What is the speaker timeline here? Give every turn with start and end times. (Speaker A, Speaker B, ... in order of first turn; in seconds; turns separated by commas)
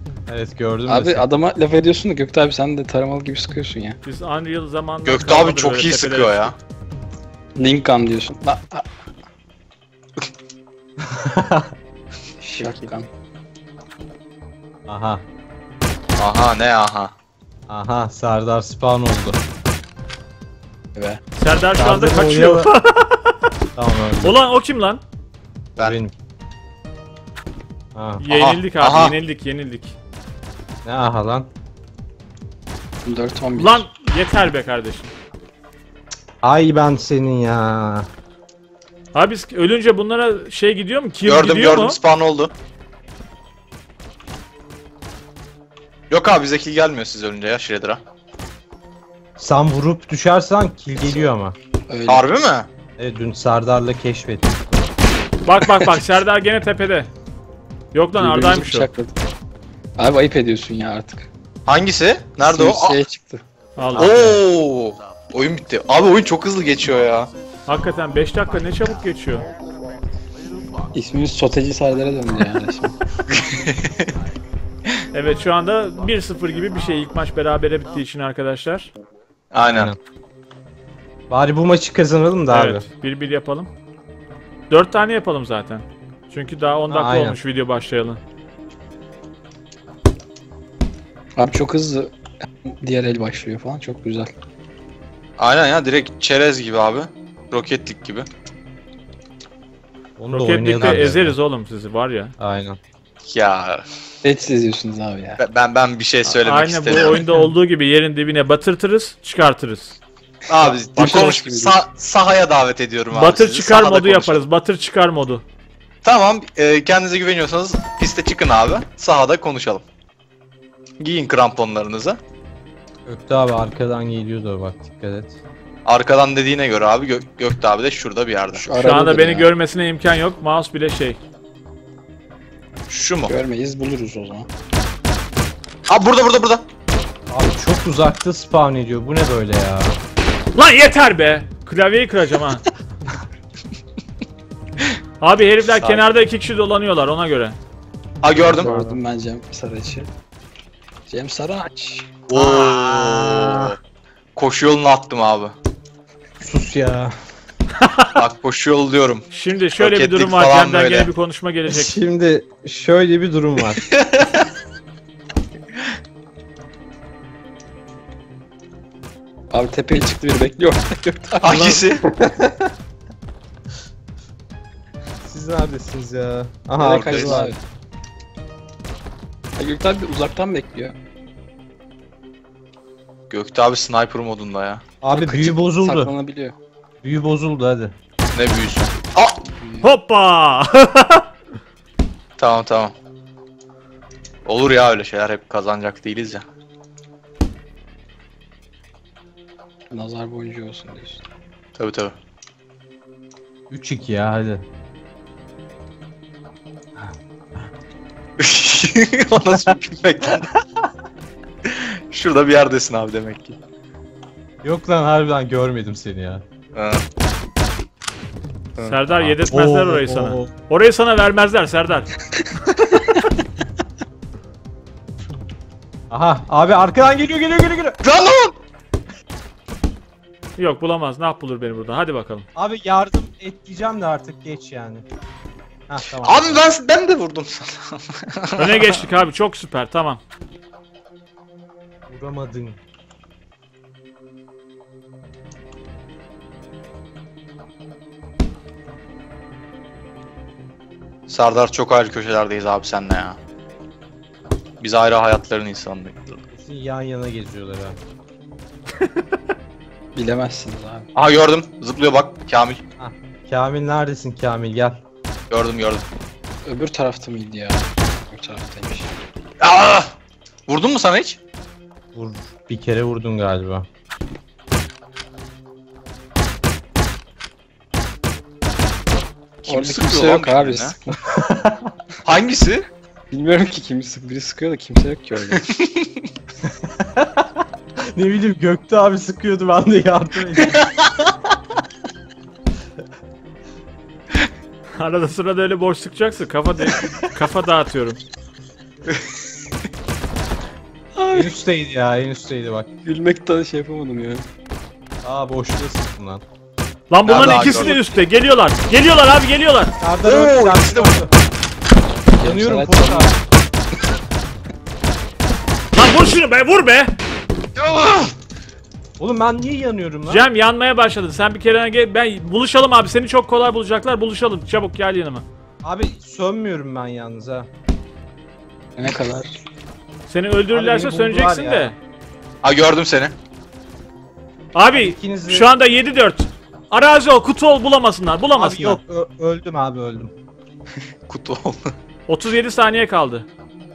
Speaker A: 0.3-1.3, Speaker B: 0.9-4.0, Speaker C: 4.0-6.5, Speaker D: 5.1-6.6, Speaker B: 7.6-8.9, Speaker A: 11.0-11.7, Speaker B: 12.4-13.1, Speaker A: 14.9-15.2, Speaker D: 16.2-17.1, Speaker A: 17.7-19.4, Speaker B: 20.9-21.2, Speaker C: 21.4-23.4, Speaker A: 21.8-22.7, Speaker A: 23.8-24.4, Speaker C: 24.2-25.0, Speaker A: 25.8-26.1, Speaker A: 27.9-28.2, Speaker C: 28.2-30.0, Speaker D: 28.3-29.2, Speaker A: 30.9-31.5, Speaker B: 33.0-33.9, Speaker C: 33.6-35.1, Speaker A: 36.4-38.1, Speaker C: 39.1-42.0, Speaker D: 41.2-42.5, Speaker D: 46.1-48.0, Speaker A: 49.4-51.5, Speaker B: 51.9-52.3, Speaker D: 52.1-52.7, Speaker A: 53.0-54.8, Speaker C: 55.5-57.1, Speaker C: 57.9-58.9, Speaker B: 58.2-59.1, Speaker B: 60.0-61.3, Speaker D: 61.7-63.0, Speaker B: 62.5-64.4, Speaker C: 63.8-64.2, Speaker D: 64.0-67.3, Speaker C: 67.7-69.5, Speaker B: 70.9-73.0, Speaker D: 73.3-74.1, Speaker C: 75.1-78.9, Speaker D: 79.5-79.9, Speaker A: 79.7-80.0, Speaker A: 81.3-82.9, Speaker C: 82.5-83.7, Speaker C: 84.7-88.2, Speaker A: 86.9-87.4, Speaker B: 91.4-94.3, Speaker D: 95.4-98.3, Speaker A: 100.2-101.4, Speaker C: 100.3-102.3, Speaker A: 102.4-102.8, Speaker D: 103.2-103.8, Speaker B: 104.2-105.4, Speaker D: 105.4-107.3, Speaker C: 106.2-110.0, Speaker D: 110.5-114.4, Speaker B: 110.6-111.8, Speaker C: 113.1-115.4, Speaker D: 116.0-119.8, Speaker D: 121.0-122.2, Speaker A: 123.1-125.4, Speaker D: 125.8-128.7, Speaker B: 128.5-129.5, Speaker C: 128.8-131.2, Speaker D: 132.9-133.3, Speaker B: 133.3-134.5, Speaker D: 135.9-136.7, Speaker A: 137.3-140.0, Speaker C: 140.6-142.7, Speaker C: 145.2-147.6, Speaker D: 145.7-146.0, Speaker D: 148.2-148.8, Speaker B: 148.4-150.1, Speaker A: 148.5-149.0, Speaker B: 151.1-152.2, Speaker D: 152.3-153.8, Speaker A: 152.4-153.7, Speaker D: 154.4-155.6, Speaker A: 156.4-157.2, Speaker C: 157.8-158.2, Speaker D: 158.2-159.3, Speaker C: 159.3-162.0, Speaker D: 159.8-161.1, Speaker A: 161.7-163.8, Speaker D: 163.8-164.5, Speaker B: 169.5-171.8, Speaker D: 171.4-172.1, Speaker A: 171.5-172.6, Speaker A: 175.2-177.6, Speaker B: 176.8-177.6, Speaker D: 176.8-177.4, Speaker B: 179.6-180.9, Speaker D: 183.3-184.8, Speaker A: 185.0-186.1, Speaker B: 185.1-186.6, Speaker A: 187.0-187.9, Speaker D: 188.3-189.4, Speaker B: 189.6-189.9, Speaker C: 189.8-191.3, Speaker D: 192.4-192.9, Speaker D: 194.4-196.4, Speaker B: 199.9-201.2, Speaker D: 201.8-202.2, Speaker A: 203.7-204.7, Speaker D: 208.4-210.5, Speaker D: 211.7-213.6, Speaker A: 214.6-216.4, Speaker D: 216.7-217.0, Speaker C: 218.8-222.1, Speaker A: 219.1-220.5, Speaker A: 226.1-228.0, Speaker D: 228.0-228.6, Speaker C: 230.6-232.5, Speaker A: 232.6-235.1, Speaker A: 235.9-236.7, Speaker D: 236.2-239.0, Speaker C: 238.6-240.2, Speaker A: 242.1-242.8, Speaker D: 251.3-253.4, Speaker D: 254.8-256.4, Speaker A: 256.5-258.0, Speaker B: 260.1-261.1, Speaker D: 261.1-262.8, Speaker A: 263.0-265.0, Speaker D: 265.5-266.1, Speaker B: 266.6-269.1, Speaker D: 269.6-270.1, Speaker D: 270.7-271.4, Speaker A: 272.1-273.9, Speaker D: 279.6-281.0, Speaker B: 279.7-281.2, Speaker A: 281.2-281.9, Speaker D: 282.2-282.9, Speaker B: 283.3-285.7, Speaker D: 285.6-286.2, Speaker A: 286.6-287.5, Speaker A: 288.1-291.4, Speaker C: 295.0-298.2, Speaker B: 301.1-301.5, Speaker A: 301.3-302.9, Speaker B: 303.0-304.5, Speaker A: 305.2-306.4, Speaker C: 307.1-309.9, Speaker D: 307.2-308.0, Speaker A: 307.4-307.9, Speaker A: 310.0-311.3, Speaker D: 310.2-311.3, Speaker B: 312.4-313.4, Speaker A: 312.4-313.3, Speaker C: 315.9-317.1, Speaker D: 317.8-318.3, Speaker A: 319.2-320.5, Speaker C: 320.3-325.4, Speaker A: 325.8-327.7, Speaker B: 329.0-329.6, Speaker C: 330.3-331.9, Speaker A: 330.7-332.0, Speaker D: 332.6-333.4, Speaker C: 334.8-339.0, Speaker A: 334.9-335.7, Speaker A: 338.6-340.3, Speaker D: 341.3-341.9, Speaker C: 342.3-343.5